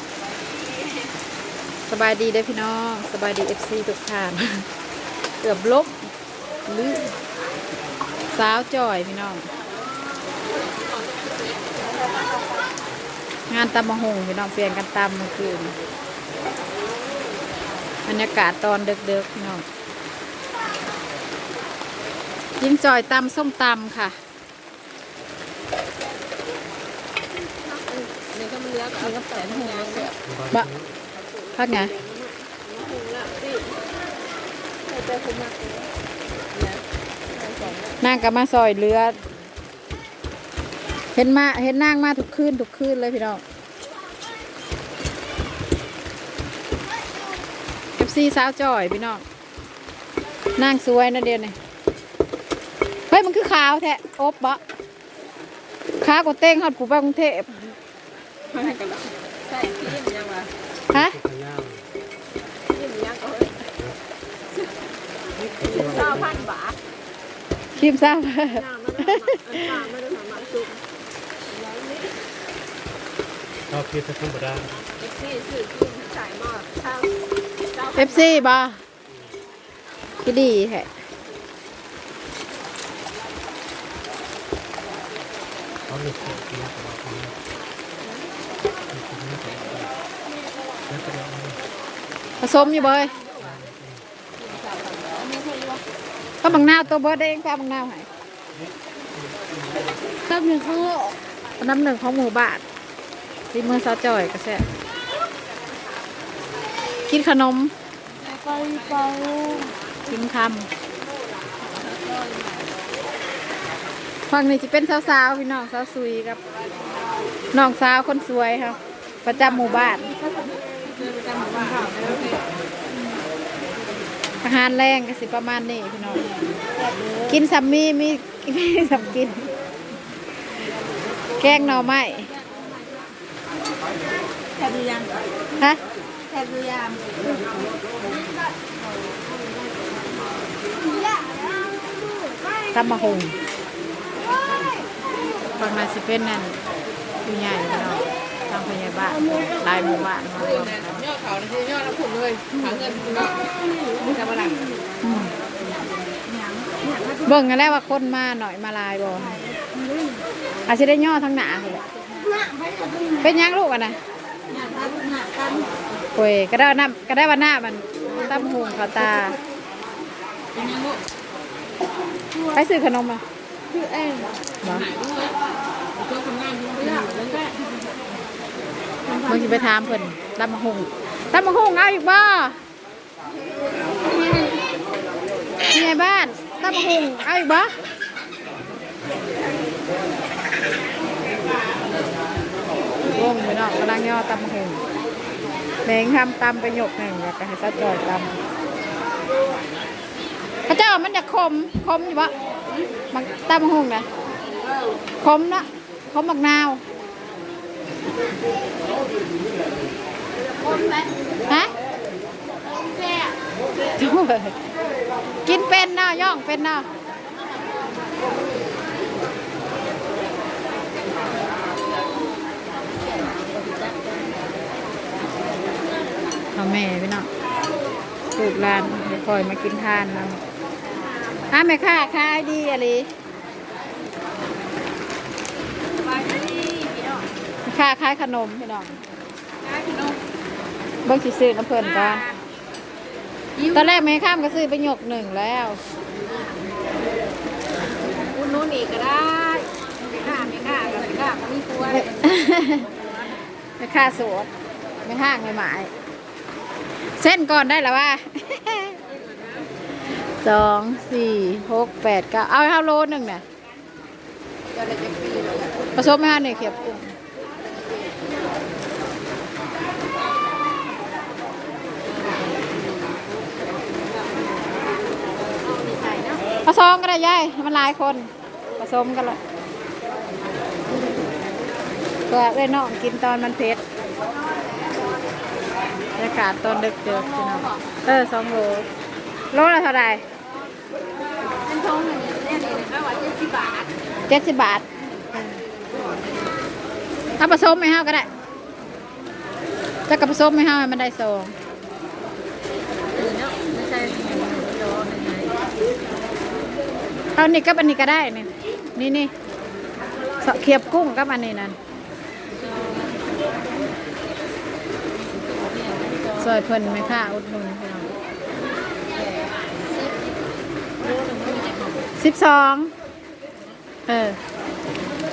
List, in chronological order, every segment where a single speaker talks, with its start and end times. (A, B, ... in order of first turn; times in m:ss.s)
0:01.9-0:04.7 A
0:05.4-0:06.1 A
0:08.3-0:09.5 A
0:13.5-0:15.7 A
0:18.0-0:19.6 A
0:22.6-0:24.2 A
0:27.6-0:30.2 B
0:29.0-0:30.7 A
0:30.2-0:30.9 C
0:31.6-0:31.9 A
0:31.7-0:33.8 B
0:34.8-0:35.9 B
0:36.5-0:38.0 B
0:38.0-0:39.2 A
0:41.1-0:43.4 A
0:48.0-0:49.2 A
0:50.6-0:51.6 A
0:53.1-0:54.6 A
0:56.0-0:57.6 A
0:58.5-1:00.5 B
1:00.9-1:01.2 A
1:00.9-1:01.9 C
1:02.7-1:03.7 B
1:05.4-1:06.4 C
1:05.6-1:06.7 B
1:07.7-1:09.6 A
1:08.5-1:10.8 B
1:11.7-1:12.0 B
1:13.7-1:14.8 C
1:15.0-1:17.1 B
1:17.7-1:18.4 B
1:17.9-1:18.8 A
1:20.2-1:20.9 A
1:25.9-1:27.4 C
1:28.9-1:29.9 C
1:30.9-1:31.6 C
1:32.4-1:33.1 A
1:32.7-1:33.6 B
1:33.4-1:34.0 C
1:34.4-1:35.8 B
1:36.4-1:38.1 A
1:40.3-1:41.1 B
1:41.6-1:42.6 A
1:43.5-1:44.7 A
1:47.1-1:47.7 A
1:48.2-1:49.7 B
1:50.0-1:50.7 A
1:51.6-1:52.7 B
1:54.3-1:56.4 A
1:57.5-2:00.1 A
1:59.6-2:02.5 B
2:04.4-2:06.3 A
2:06.8-2:07.4 B
2:07.3-2:09.5 A
2:11.4-2:12.3 A
2:14.5-2:15.2 B
2:16.3-2:17.2 B
2:22.7-2:23.4 A
2:25.6-2:26.6 A
2:27.2-2:31.1 A
2:31.1-2:34.7 B
2:35.0-2:35.3 A
2:36.1-2:37.4 B
2:37.2-2:39.4 A
2:39.5-2:40.1 B
2:40.7-2:41.8 A
2:42.2-2:43.2 B
2:43.2-2:44.0 A
2:44.5-2:45.7 B
2:46.1-2:49.4 A
2:50.5-2:51.0 B
2:52.5-2:53.2 A
2:53.7-2:55.3 B
2:54.6-2:54.9 A
2:56.0-2:57.6 B
2:59.1-2:59.7 B
2:59.2-3:02.6 A
3:05.7-3:07.7 A
3:13.0-3:14.8 A
3:15.8-3:18.4 A
3:20.7-3:22.3 A
3:23.1-3:24.1 A
3:25.2-3:26.8 A
3:30.7-3:31.0 B
3:31.5-3:31.7 A
3:34.0-3:34.6 A
3:35.4-3:36.9 A
3:43.4-3:44.1 B
3:46.5-3:47.3 A
3:48.3-3:50.4 A
3:51.5-3:53.1 A
3:56.0-3:57.3 B
3:57.6-3:59.0 A
3:59.6-4:00.2 B
4:01.0-4:02.2 A
4:01.8-4:02.3 B
4:03.6-4:04.0 B
4:03.7-4:05.8 A
4:08.1-4:12.4 B
4:11.9-4:12.9 A
4:13.8-4:14.5 A
4:15.0-4:15.9 A
4:17.1-4:19.0 A
4:20.4-4:23.4 A
4:24.8-4:25.7 B
4:25.9-4:27.1 A
4:35.6-4:36.4 B
4:36.6-4:39.4 A
4:42.3-4:43.8 A
4:46.2-4:48.9 A
4:47.1-4:47.8 B
4:49.5-4:50.2 A
4:51.5-4:53.9 B
4:54.3-4:55.5 A
4:57.4-4:58.3 A
5:00.1-5:01.5 A
5:03.1-5:05.6 B
5:07.4-5:09.3 A
5:10.4-5:11.8 A
5:12.5-5:13.2 B
5:15.3-5:16.6 B
5:16.4-5:18.1 A
5:19.2-5:19.5 B
5:21.0-5:22.0 B
5:22.2-5:22.9 A
5:24.1-5:24.4 A